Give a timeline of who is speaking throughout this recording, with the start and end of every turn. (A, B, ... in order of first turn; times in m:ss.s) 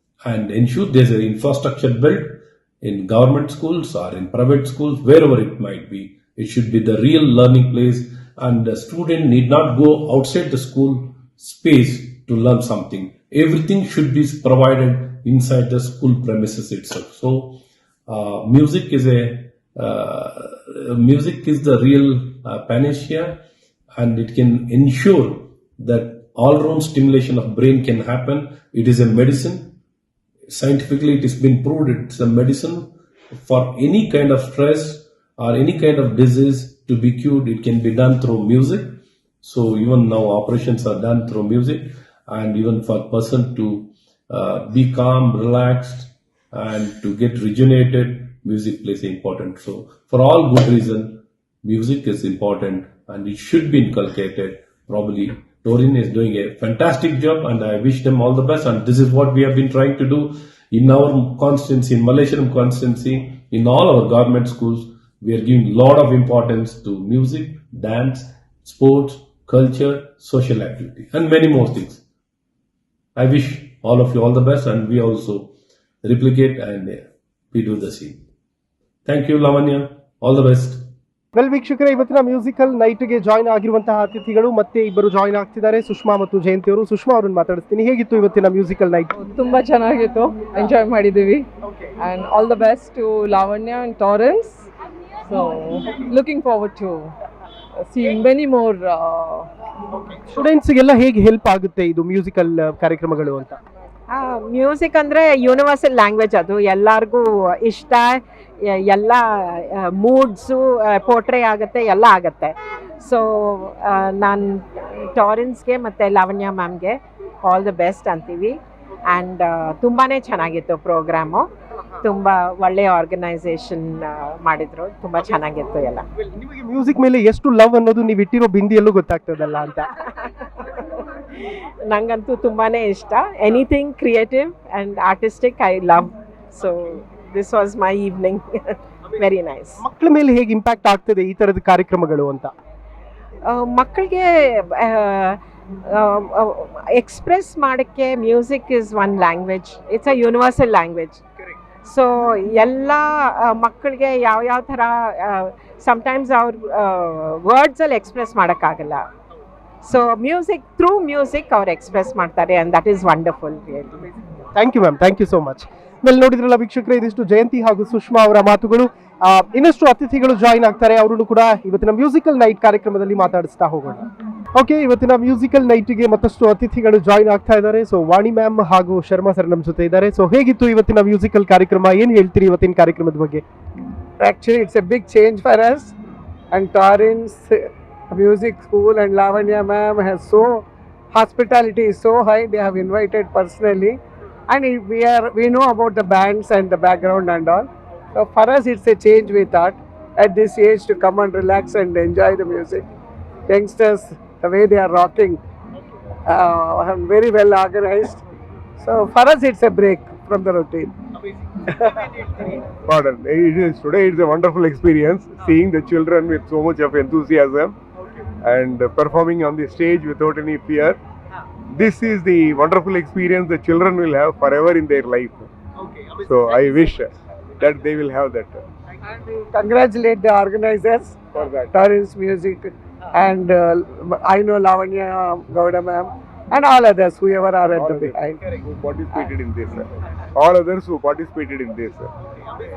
0:00.2-0:23.4 A
0:24.0-0:29.7 A
0:30.5-1:12.0 A
1:13.2-1:18.2 A
1:19.0-1:20.9 A
1:21.3-1:29.1 B
1:29.2-1:34.7 C
1:35.3-1:37.1 C
1:37.9-1:39.5 C
1:40.3-1:43.6 B
1:44.1-2:01.5 D
2:02.0-2:06.0 D
2:06.4-2:09.9 B
2:10.0-2:11.0 D
2:11.9-2:19.8 D
2:19.8-2:22.5 B
2:23.5-2:25.4 D
2:25.9-2:31.2 D
2:31.8-2:39.0 D
2:39.8-2:44.0 D
2:44.6-3:03.4 B
3:04.2-3:06.0 E
3:06.5-3:07.5 E
3:08.1-3:22.9 E
3:23.5-3:25.4 E
3:26.3-3:28.2 E
3:28.8-3:31.0 E
3:31.7-3:32.6 E
3:32.9-3:37.8 F
3:38.4-3:41.0 F
3:41.7-3:45.5 F
3:46.2-3:48.6 F
3:49.2-3:51.2 E
3:51.3-3:51.8 F
3:51.7-3:58.5 E
3:57.7-4:02.1 F